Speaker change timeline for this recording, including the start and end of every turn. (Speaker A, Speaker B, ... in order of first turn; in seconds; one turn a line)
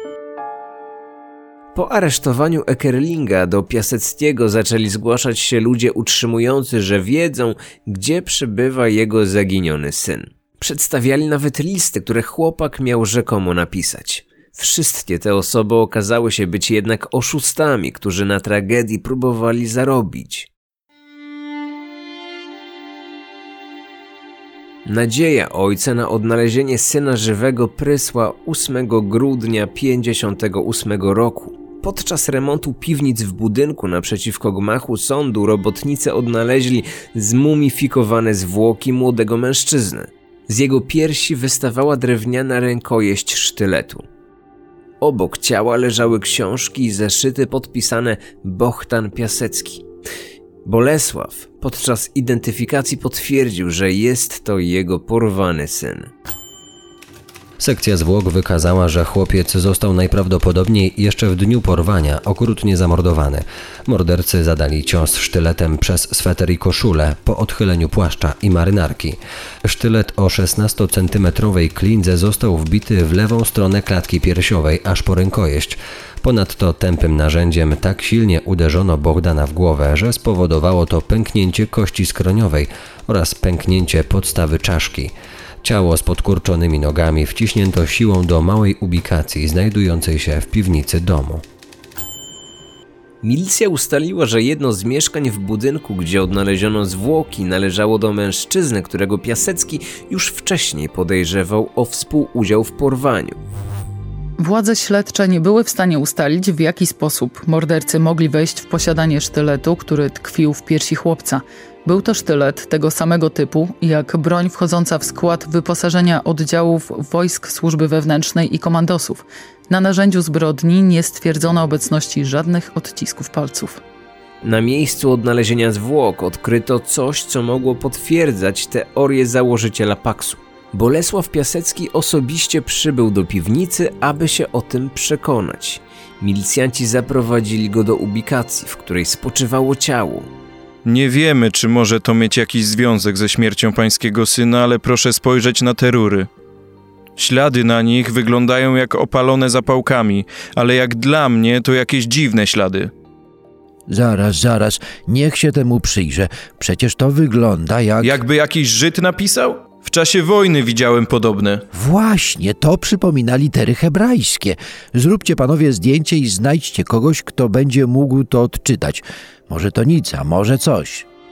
Speaker A: 1.7-20.5
Speaker A: 24.9-44.0
Speaker A: 45.0-49.9
Speaker A: 50.6-56.1
Speaker B: 57.6-91.4
Speaker A: 93.2-103.4
Speaker C: 104.4-123.8
Speaker A: 124.4-140.3
Speaker D: 140.8-146.3
Speaker D: 147.2-152.9
Speaker E: 153.9-158.2
Speaker D: 158.0-161.6
Speaker E: 161.7-171.0